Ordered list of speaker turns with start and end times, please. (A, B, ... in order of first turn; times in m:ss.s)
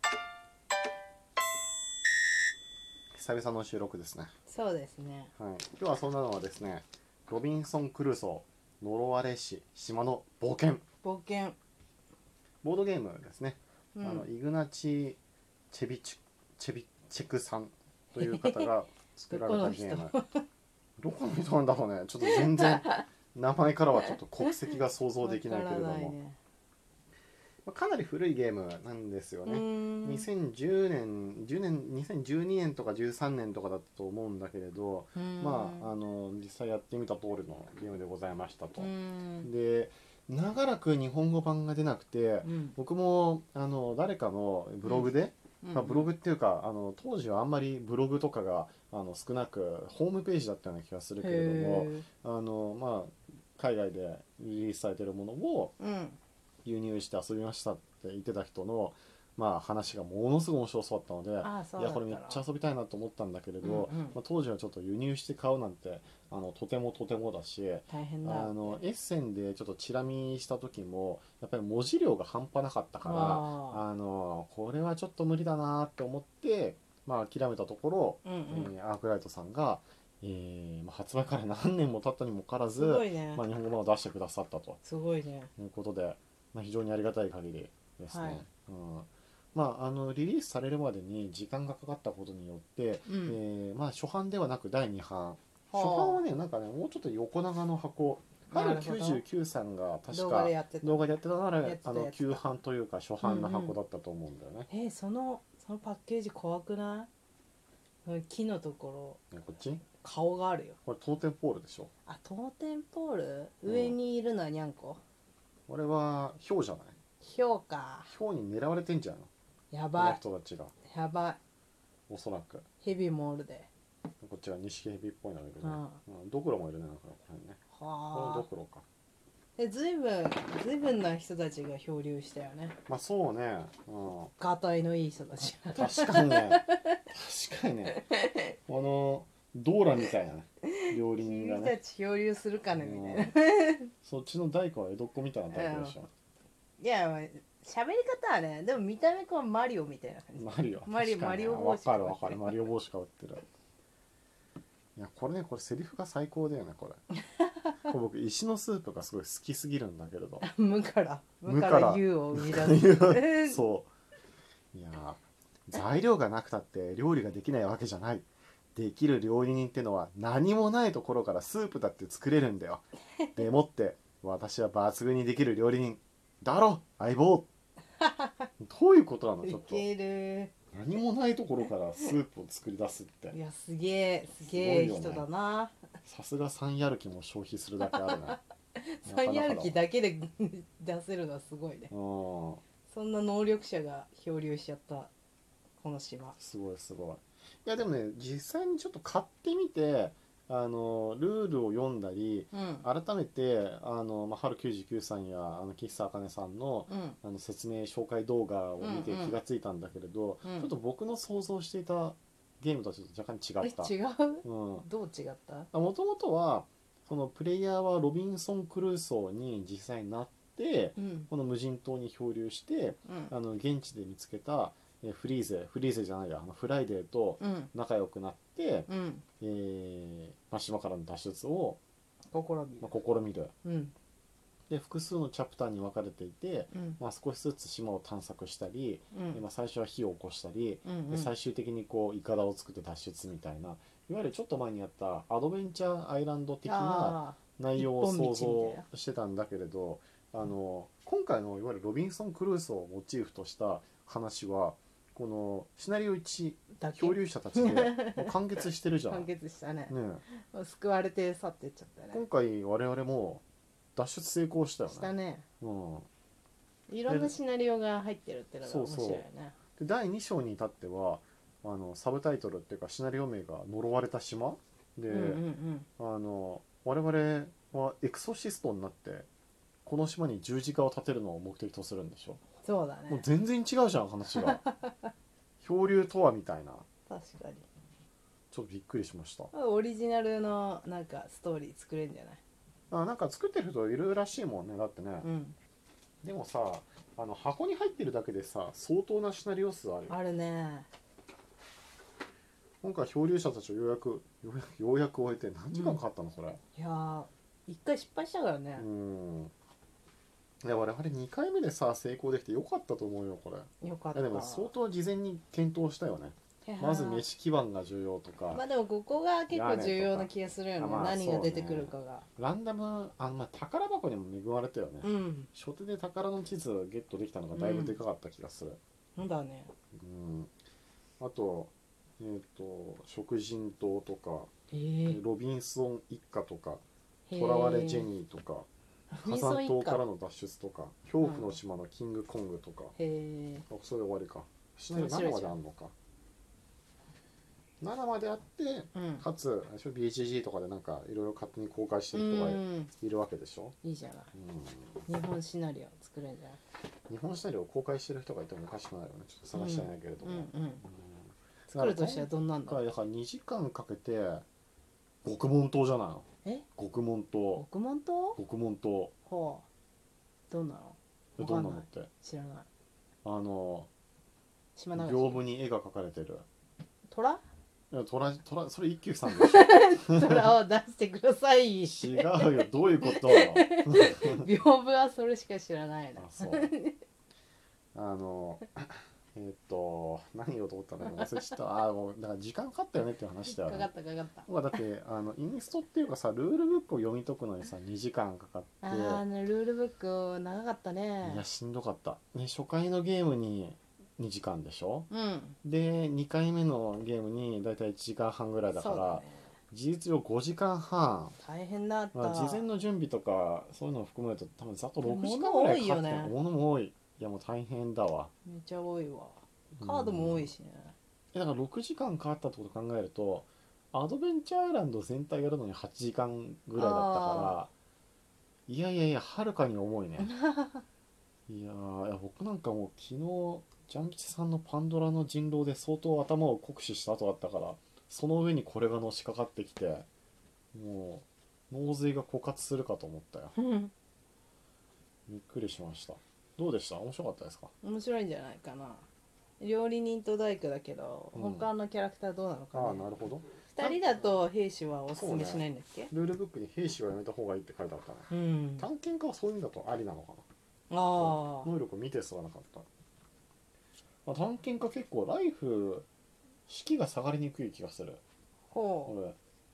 0:03.1-0:04.3 A
0:04.5-0:05.3 B
0:05.4-0:10.8 A
0:11.0-0:11.6 B
0:12.6-0:15.2 A
0:13.9-0:14.3 B
0:15.7-0:20.1 A
0:18.2-0:18.7 B
0:19.3-0:20.4 B
0:21.0-0:26.2 A
0:22.2-0:23.0 B
0:25.2-0:26.4 B
0:27.6-0:38.9 A
0:29.4-0:30.3 B
0:35.1-0:35.9 B
0:38.8-0:39.5 B
0:39.4-0:55.7 A
0:42.4-0:42.7 B
0:44.8-0:46.1 B
0:51.2-0:52.0 B
0:55.8-0:56.2 B
0:56.6-1:24.8 A
1:01.4-1:02.4 B
1:03.6-1:04.2 B
1:07.9-1:08.8 B
1:13.0-1:13.8 B
1:18.2-1:18.7 B
1:22.8-1:23.4 B
1:24.8-1:25.5 B
1:25.6-1:44.7 A
1:28.1-1:28.4 B
1:33.1-1:33.4 B
1:35.7-1:36.2 B
1:38.5-1:39.2 B
1:40.1-1:41.0 B
1:41.6-1:42.4 B
1:43.2-1:43.8 B
1:44.7-1:47.1 B
1:48.0-1:49.2 B
1:49.3-1:49.8 A
1:50.0-1:50.8 B
1:50.8-1:51.9 A
1:52.0-1:55.0 B
1:53.6-1:54.0 A
1:55.7-1:57.0 A
1:57.2-1:58.1 B
1:58.0-1:59.3 A
1:59.7-2:00.2 B
1:59.9-2:00.7 A
2:00.8-2:01.4 B
2:02.1-2:02.6 A
2:02.8-2:03.7 B
2:04.2-2:07.6 A
2:05.6-2:06.0 B
2:07.7-2:08.4 B
2:08.1-2:08.8 A
2:09.6-2:12.8 B
2:12.9-2:14.3 A
2:14.4-2:17.0 B
2:15.7-2:18.0 A
2:18.0-2:18.4 B
2:18.6-2:21.8 A
2:20.6-2:23.9 B
2:22.7-2:23.4 A
2:24.0-2:26.1 A
2:25.5-2:26.0 B
2:26.8-2:32.6 B
2:30.4-2:33.4 A
2:35.0-2:37.0 A
2:37.8-2:40.5 A
2:40.4-2:43.6 B
2:41.4-2:43.9 A
2:44.7-2:57.5 A
2:58.0-2:58.5 B
2:58.6-2:59.8 A
2:59.4-3:00.5 B
3:00.7-3:03.4 A
3:03.3-3:05.8 B
3:04.5-3:05.2 A
3:06.0-3:08.4 A
3:07.8-3:11.9 B
3:09.0-3:09.8 A
3:11.9-3:12.6 A
3:12.9-3:15.1 B
3:15.8-3:16.4 B
3:16.4-3:33.9 A
3:22.5-3:22.8 B
3:26.9-3:27.2 B
3:28.8-3:29.4 B
3:30.4-3:30.7 B
3:33.6-3:35.7 B
3:34.4-3:34.9 A
3:35.7-3:48.9 A
3:41.0-3:41.3 B
3:43.0-3:43.3 B
3:47.4-3:47.7 B
3:48.9-3:49.2 B
3:49.4-3:51.8 A
3:52.3-3:52.9 B
3:52.8-3:53.5 A
3:53.6-3:53.9 B
3:54.7-4:19.3 A
3:56.7-3:57.0 B
3:59.1-3:59.4 B
4:00.8-4:01.3 B
4:06.6-4:08.8 B
4:16.8-4:22.2 B
4:19.9-4:20.2 A
4:22.1-4:23.4 A
4:24.0-4:26.1 A
4:24.9-4:25.4 B
4:26.9-4:29.6 B
4:27.1-4:27.3 A
4:28.6-4:29.2 A
4:29.8-4:35.4 A
4:35.1-4:35.9 B
4:36.0-4:39.3 A
4:39.8-4:42.4 A
4:42.6-4:43.2 B
4:43.1-4:44.6 A
4:44.4-4:45.0 B
4:45.6-4:46.8 A
4:47.1-4:47.6 B
4:48.5-4:49.5 A
4:49.5-4:52.4 B
4:52.9-4:55.3 A
4:55.2-4:55.6 B
4:56.2-5:00.2 A
5:00.1-5:00.9 B
5:02.8-5:06.6 A
5:05.7-5:06.0 B
5:06.7-5:08.9 B
5:08.8-5:09.5 A
5:10.6-5:18.6 A
5:13.8-5:14.7 B
5:16.6-5:17.2 B
5:18.5-5:22.2 B
5:19.5-5:28.8 A
5:25.0-5:25.5 B
5:27.5-5:28.0 B
5:29.2-5:29.7 B
5:29.9-5:30.5 A
5:31.2-5:34.5 A
5:34.7-5:35.2 B
5:35.1-5:36.8 A
5:37.3-5:38.1 B
5:37.3-5:38.7 A
5:39.1-5:40.0 B
5:39.2-5:42.9 A
5:41.2-5:41.5 B
5:43.0-5:43.6 B
5:43.7-5:45.9 A
5:44.9-5:45.6 B
5:47.8-5:53.8 A
5:48.9-5:49.2 B
5:52.1-5:52.9 B
5:53.8-5:54.3 B
5:54.3-5:55.0 A
5:55.0-5:56.6 B
5:57.1-6:04.4 A
5:59.5-6:00.8 B
6:01.8-6:02.8 B
6:05.2-6:07.6 A
6:07.6-6:08.4 B
6:08.4-6:09.1 A
6:09.2-6:09.6 B
6:10.5-6:12.6 B
6:11.4-6:12.1 A
6:13.2-6:13.9 A
6:14.8-6:15.4 B
6:14.9-6:16.4 A
6:17.1-6:17.4 B
6:17.9-6:20.4 A
6:19.2-6:27.0 B
6:21.8-6:24.5 A
6:26.2-6:26.7 A
6:27.9-6:33.9 A
6:31.0-6:31.4 B
6:33.4-6:34.5 B
6:34.4-6:39.2 A
6:38.8-6:41.4 B
6:41.2-6:45.1 A
6:45.1-6:45.6 B
6:45.6-6:51.4 A
6:48.7-6:49.5 B
6:51.4-6:52.6 B
6:52.1-6:58.3 A
6:55.0-6:56.3 B
6:58.4-7:00.9 B
6:59.8-7:00.5 A
7:01.3-7:07.7 A
7:06.8-7:07.6 B
7:08.7-7:10.3 A
7:10.2-7:10.8 B
7:11.5-7:20.1 A
7:20.7-7:23.5 A
7:23.6-7:23.9 B
7:25.3-7:27.7 A
7:27.8-7:29.0 B
7:29.6-7:33.1 B
7:31.3-7:31.7 A
7:32.7-7:34.3 A
7:33.7-7:36.1 B
7:35.2-7:40.4 A
7:38.3-7:38.9 B
7:40.9-7:41.7 B
7:41.1-7:42.8 A
7:44.2-7:46.0 A
7:46.7-7:48.2 A
7:48.7-7:49.2 B
7:49.1-7:49.4 A